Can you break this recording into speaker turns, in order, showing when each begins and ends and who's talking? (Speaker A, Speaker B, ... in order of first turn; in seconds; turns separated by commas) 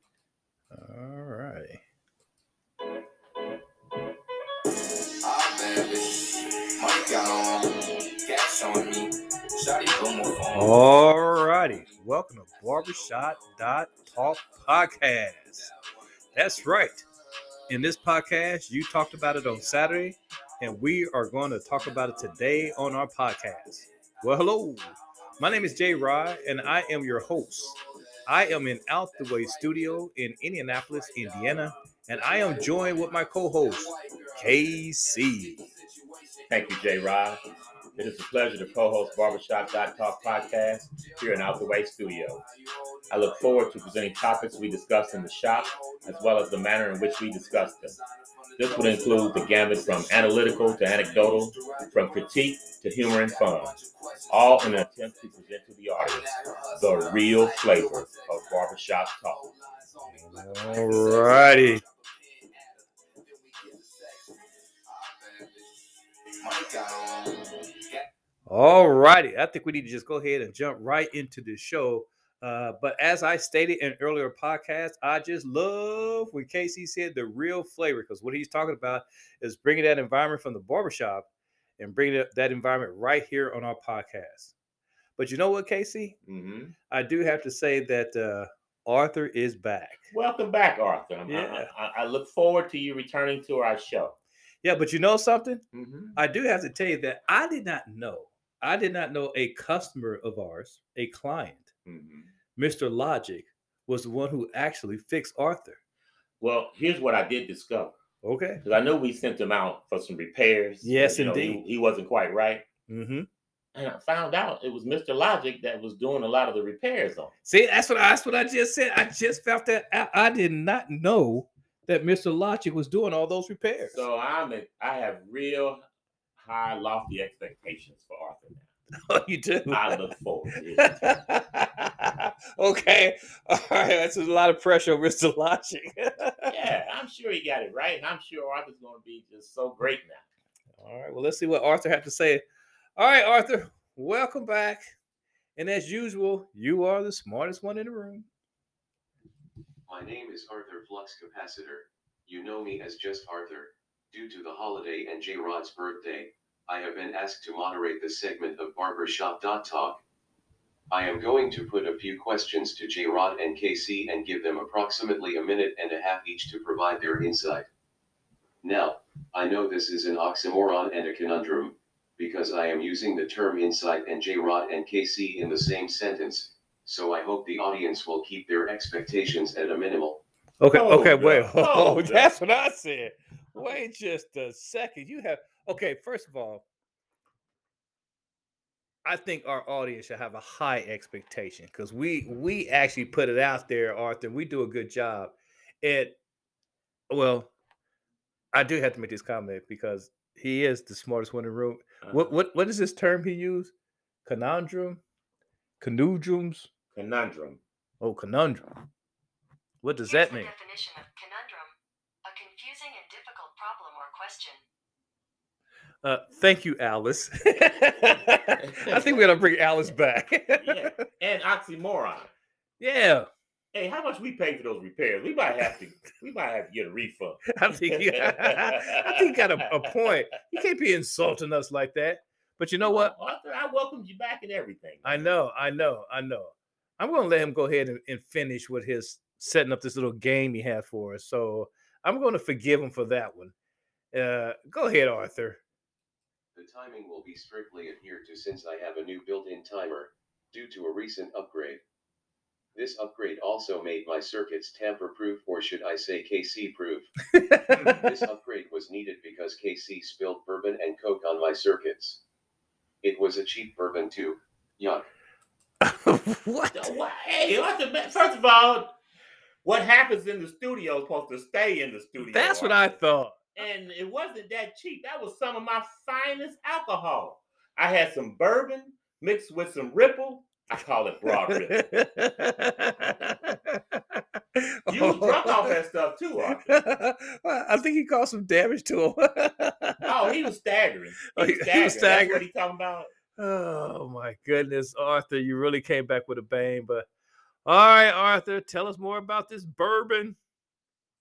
Speaker A: 0.7-1.8, Speaker B: 5.2-17.1, Speaker A: 10.5-15.7, Speaker A: 16.3-17.0, Speaker A: 17.7-27.8, Speaker B: 19.3-20.0, Speaker B: 21.8-22.8, Speaker B: 23.8-30.1, Speaker A: 28.3-35.6, Speaker B: 30.7-68.0, Speaker C: 36.5-37.4, Speaker C: 38.0-42.4, Speaker C: 43.1-48.0, Speaker C: 48.6-53.7, Speaker C: 54.3-59.4, Speaker A: 60.2-61.8, Speaker A: 68.5-81.3, Speaker A: 81.8-84.5, Speaker A: 85.2-86.2, Speaker C: 86.3-86.7, Speaker A: 86.9-90.0, Speaker C: 90.1-94.2, Speaker A: 91.3-91.7, Speaker A: 94.6-95.6, Speaker C: 95.7-96.2, Speaker A: 96.2-101.7, Speaker C: 101.8-102.3, Speaker A: 102.6-105.8, Speaker C: 106.4-108.0, Speaker A: 108.2-108.6, Speaker C: 108.6-112.6, Speaker A: 110.8-111.6, Speaker A: 112.9-113.3, Speaker C: 113.7-117.3, Speaker A: 117.5-124.0, Speaker C: 123.9-125.8, Speaker C: 126.4-128.7, Speaker A: 129.1-130.0, Speaker C: 129.7-131.1, Speaker A: 130.8-136.5, Speaker C: 136.5-140.2, Speaker A: 140.8-142.4, Speaker A: 143.0-144.9, Speaker A: 145.6-148.3, Speaker D: 149.9-160.0, Speaker D: 160.9-167.7, Speaker D: 168.6-180.2, Speaker A: 180.6-186.7, Speaker C: 180.7-182.3, Speaker A: 189.1-196.2, Speaker A: 197.1-197.5, Speaker A: 198.5-203.7, Speaker C: 202.0-202.3, Speaker A: 204.2-205.0, Speaker A: 205.8-206.7, Speaker C: 206.9-207.6, Speaker A: 208.0-208.7, Speaker A: 209.8-210.5, Speaker E: 210.1-211.7, Speaker E: 212.2-214.6, Speaker A: 216.0-220.8, Speaker C: 218.8-219.2, Speaker C: 220.6-222.3, Speaker A: 222.8-223.3, Speaker C: 223.7-229.1, Speaker A: 227.5-233.1, Speaker C: 232.8-235.4, Speaker A: 235.0-243.5, Speaker A: 244.1-245.6, Speaker D: 246.6-251.8, Speaker D: 252.8-257.1, Speaker A: 257.3-257.8, Speaker D: 257.9-262.2, Speaker D: 263.0-265.1, Speaker A: 265.8-266.9, Speaker C: 266.7-268.9, Speaker C: 269.6-272.8, Speaker A: 272.2-273.4, Speaker C: 273.6-281.9, Speaker A: 281.5-285.7, Speaker C: 284.9-286.7, Speaker A: 286.5-290.1, Speaker C: 290.0-293.1, Speaker A: 291.3-292.4, Speaker A: 293.4-297.1, Speaker A: 297.6-300.4